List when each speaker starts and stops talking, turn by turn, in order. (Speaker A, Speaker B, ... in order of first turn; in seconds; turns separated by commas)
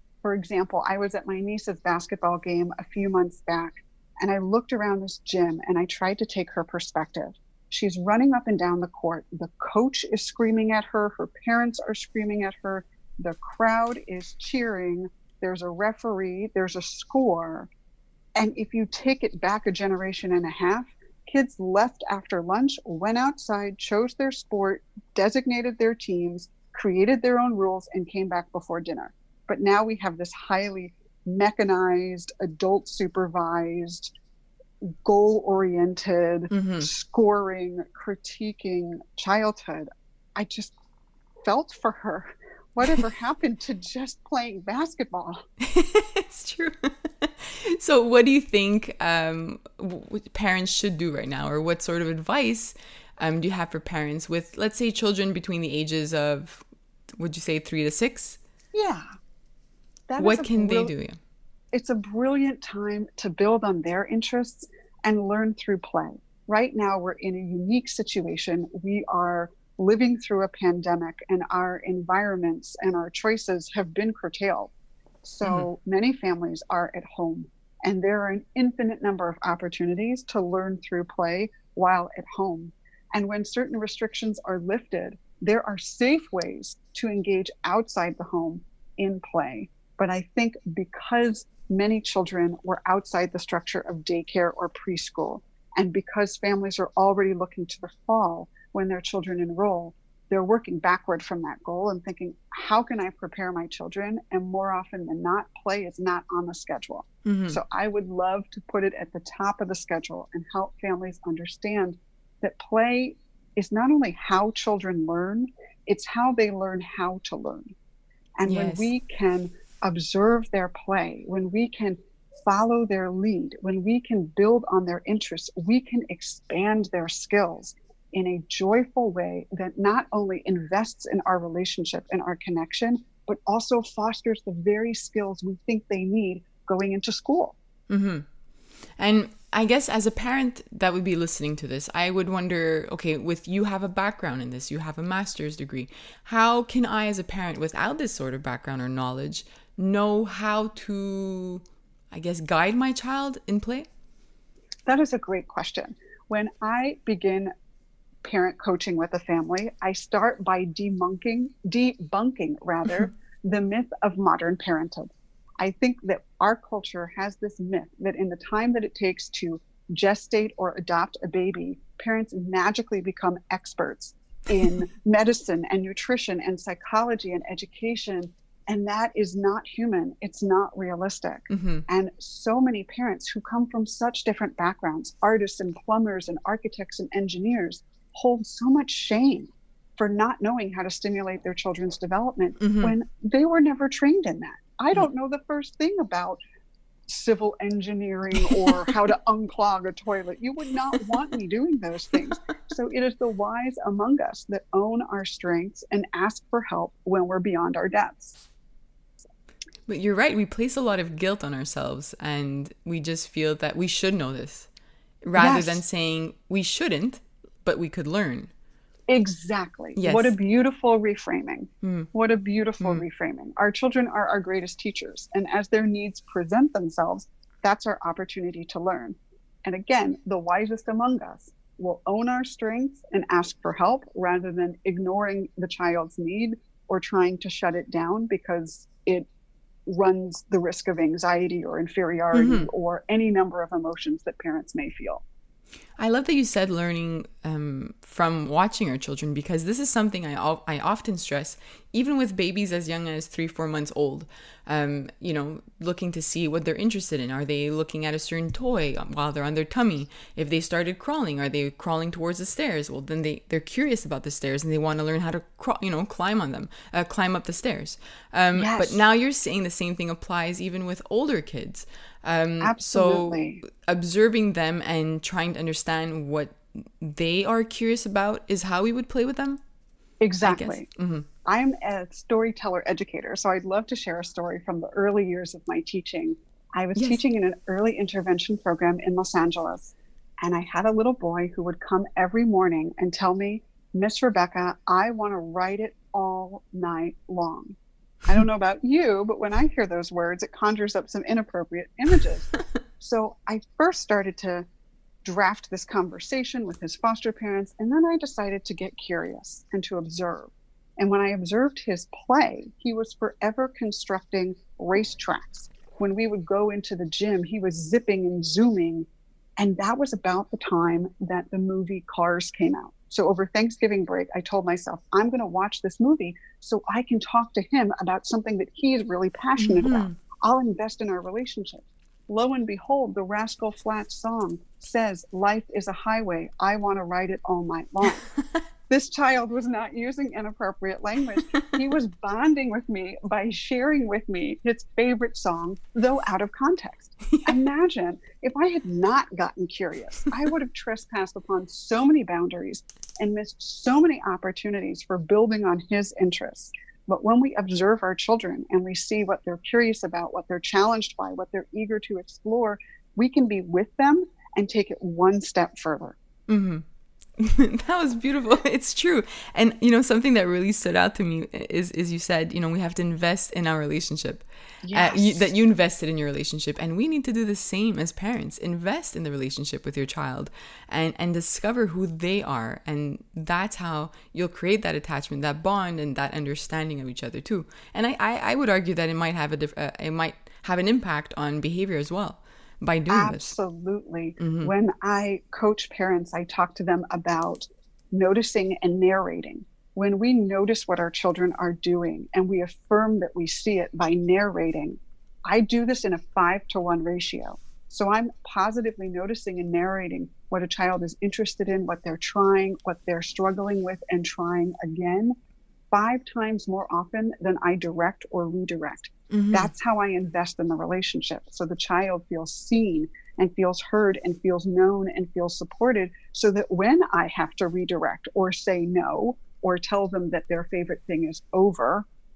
Speaker A: 0.2-17.7, Speaker A: 18.4-34.1, Speaker A: 34.9-40.7, Speaker B: 36.5-36.9, Speaker A: 41.4-45.4, Speaker B: 45.6-56.6, Speaker B: 57.2-58.4, Speaker A: 58.7-59.0, Speaker A: 60.1-60.9, Speaker B: 60.2-61.2, Speaker A: 61.7-74.7, Speaker A: 75.2-117.8, Speaker B: 107.2-107.6, Speaker A: 118.4-137.6, Speaker B: 118.5-118.9, Speaker B: 137.9-138.2, Speaker B: 139.0-153.9, Speaker A: 154.8-157.5, Speaker A: 158.2-196.4, Speaker B: 181.5-181.8, Speaker B: 192.6-192.9, Speaker A: 197.1-208.4, Speaker B: 209.9-214.7, Speaker B: 215.2-218.5, Speaker A: 215.3-215.8, Speaker A: 219.1-239.3, Speaker B: 220.0-220.3, Speaker B: 221.8-222.1, Speaker A: 239.8-245.2, Speaker B: 242.3-242.7, Speaker B: 246.0-279.6, Speaker A: 268.6-269.0, Speaker A: 272.6-273.6, Speaker A: 280.2-280.9, Speaker B: 280.4-281.3, Speaker A: 281.4-297.8, Speaker B: 286.9-287.2, Speaker A: 298.3-304.7, Speaker A: 305.2-319.1, Speaker A: 319.6-338.2, Speaker B: 329.6-330.2, Speaker A: 338.9-366.2, Speaker B: 347.3-347.6, Speaker B: 366.5-366.8, Speaker B: 367.4-393.6, Speaker A: 374.8-375.5, Speaker A: 393.1-415.3, Speaker B: 394.4-394.7, Speaker A: 415.9-432.1, Speaker B: 419.3-419.7